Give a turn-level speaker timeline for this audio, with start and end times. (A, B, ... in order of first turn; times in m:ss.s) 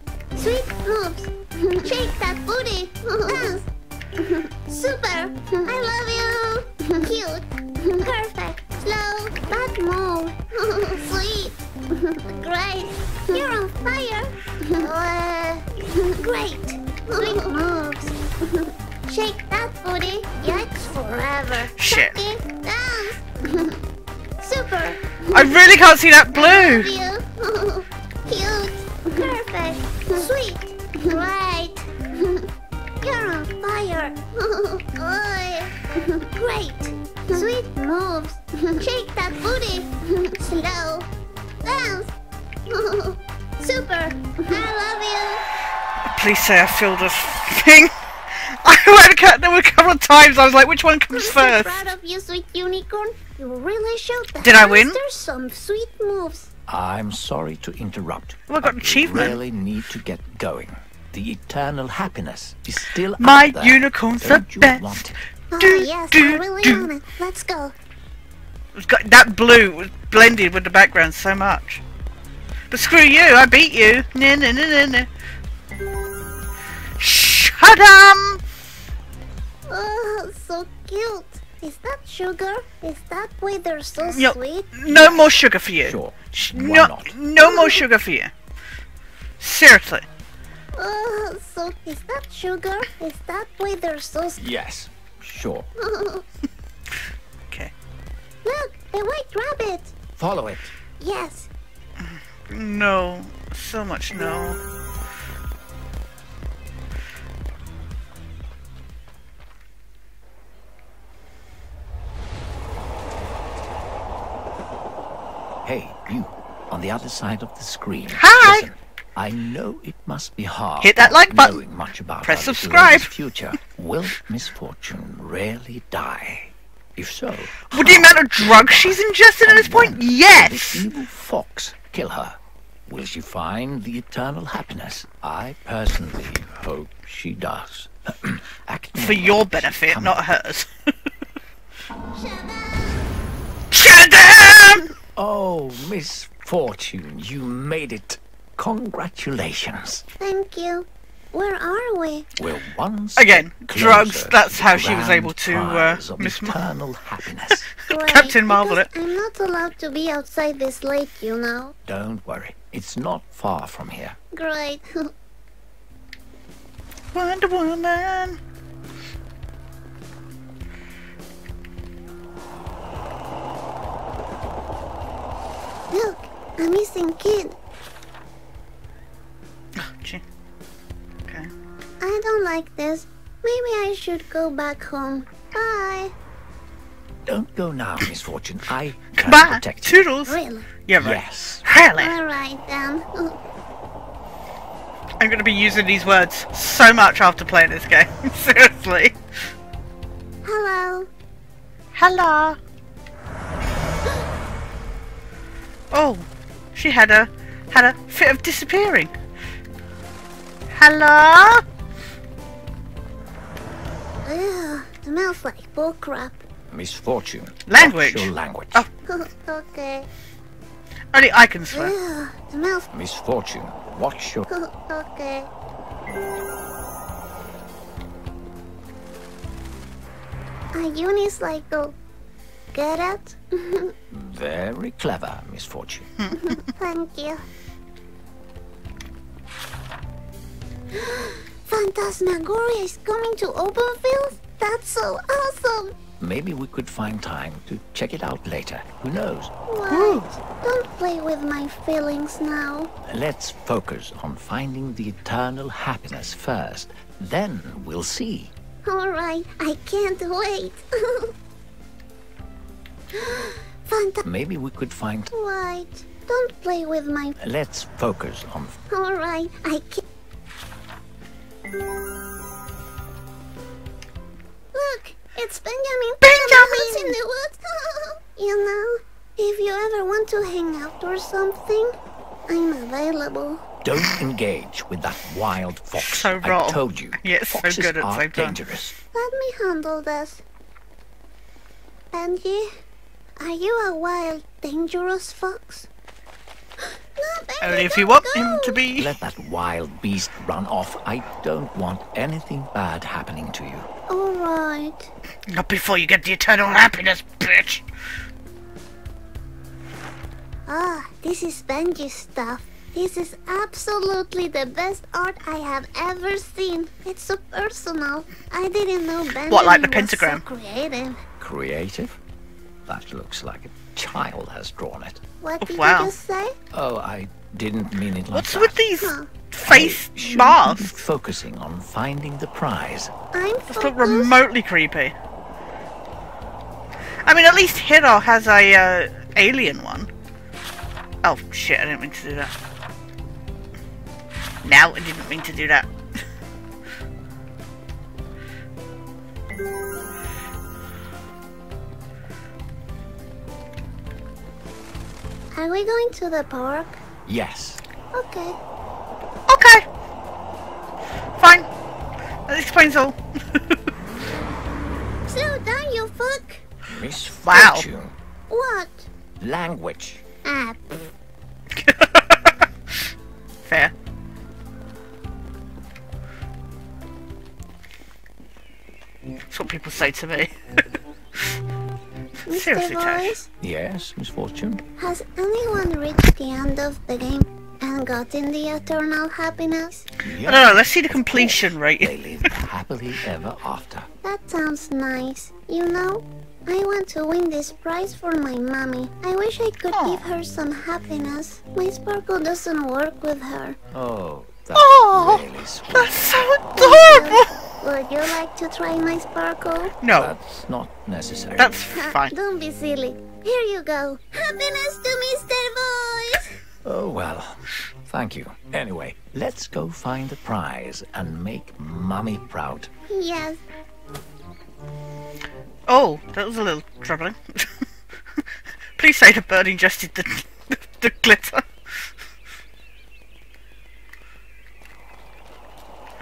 0:00.4-0:23.8 A
0:21.8-0:22.2 B
0:24.4-0:25.6 A
0:25.3-0:26.9 B
0:26.3-0:32.5 A
0:33.0-0:41.1 A
0:41.6-0:42.1 A
0:42.7-0:45.4 A
0:46.1-0:47.9 B
0:48.6-0:51.9 B
0:51.1-0:56.5 A
0:54.4-0:55.0 B
0:56.7-1:05.1 C
0:58.5-0:59.4 B
1:03.2-1:05.0 B
1:05.5-1:07.7 A
1:05.6-1:06.9 B
1:08.7-1:11.8 B
1:12.7-1:15.1 B
1:17.0-1:18.4 B
1:19.7-1:25.2 A
1:24.0-1:28.3 B
1:25.8-1:27.1 C
1:27.4-1:27.8 A
1:29.4-1:30.0 B
1:30.7-1:34.5 A
1:34.4-1:35.7 C
1:35.8-1:36.2 A
1:38.4-1:39.9 A
1:40.2-1:40.7 C
1:41.0-1:41.5 A
1:42.1-1:44.6 B
1:55.6-2:20.2 C
1:58.1-1:58.7 B
2:00.8-2:01.6 B
2:02.2-2:03.1 B
2:07.7-2:10.8 B
2:19.0-2:20.7 B
2:22.1-2:23.1 A
2:23.7-2:24.9 B
2:25.1-2:30.0 C
2:30.2-2:32.3 A
2:32.4-2:37.7 C
2:33.2-2:36.6 B
2:37.9-2:38.9 B
2:37.9-2:41.7 A
2:41.8-2:44.2 C
2:44.3-2:45.1 A
2:47.1-2:48.4 B
2:55.9-2:57.6 A
2:59.8-3:00.2 B
3:02.0-3:06.1 A
3:07.2-3:10.0 C
3:09.2-3:12.2 B
3:10.2-3:10.7 A
3:11.0-3:11.6 C
3:12.0-3:13.4 A
3:15.2-3:19.2 B
3:20.4-3:21.1 A
3:22.0-3:22.6 B
3:25.9-3:29.1 B
3:30.7-3:31.6 B
3:34.2-3:36.4 A
3:36.7-3:38.8 C
3:37.7-3:38.9 B
3:39.0-3:40.1 A
3:41.1-3:41.9 B
3:41.7-3:42.9 A
3:42.9-3:44.5 C
3:44.5-3:45.5 A
3:50.7-3:51.9 A
3:52.7-3:53.9 A
3:54.1-3:56.1 C
3:56.2-3:56.6 B
3:56.3-3:57.4 A
4:00.9-4:05.9 A
4:06.2-4:09.5 C
4:09.7-4:12.9 A
4:09.9-4:10.3 B
4:13.0-4:18.5 C
4:18.8-4:21.3 A
4:23.1-4:24.2 A
4:24.2-4:25.3 C
4:25.3-4:27.4 A
4:27.4-4:28.8 C
4:28.9-4:30.0 A
4:34.7-4:43.6 A
4:36.2-4:37.2 B
4:43.8-4:48.9 C
4:46.0-4:48.6 B
4:49.1-4:50.4 A
4:52.1-4:52.7 A
4:53.4-4:55.9 A
4:57.1-4:58.8 A
4:57.6-4:59.1 B
4:59.0-5:03.9 C
5:04.1-5:05.1 A
5:05.5-5:07.8 B
5:10.7-5:21.2 A
5:19.5-5:20.4 B
5:21.4-5:22.2 C
5:22.8-5:25.2 C
5:25.4-5:26.6 A
5:25.6-5:26.1 B
5:26.7-5:28.8 C
5:28.3-5:30.9 B
5:29.0-5:29.3 A
5:29.6-5:33.1 C
5:33.3-5:34.3 A
5:33.7-5:35.1 B
5:37.2-5:40.1 B
5:41.2-5:42.5 B
5:44.6-5:45.9 B
5:55.5-5:57.0 A
5:57.2-5:57.8 C
5:58.1-5:58.6 A
5:59.5-5:59.8 B
6:01.4-6:01.7 B
6:02.5-6:03.7 B
6:05.3-6:06.6 A
6:06.9-6:08.1 C
6:07.4-6:07.8 B
6:08.5-6:09.1 A
6:09.4-6:10.2 C
6:10.4-6:11.0 A
6:11.8-6:12.5 B
6:13.7-6:13.9 B
6:19.5-6:20.5 B
6:22.5-6:23.5 A
6:22.5-6:23.4 B
6:23.6-6:24.8 C
6:25.0-6:30.0 A
6:30.2-6:34.1 C
6:30.5-6:32.1 B
6:34.2-6:43.8 A
6:39.9-6:40.2 B
6:43.9-6:46.3 C
6:44.7-6:47.5 B
6:46.8-6:49.9 A
6:50.0-6:50.3 B
6:50.2-6:51.8 C
6:51.6-6:52.3 B
6:52.0-6:56.5 A
6:56.8-7:02.9 C
7:03.1-7:03.6 A
7:05.9-7:07.7 B
7:09.0-7:11.7 B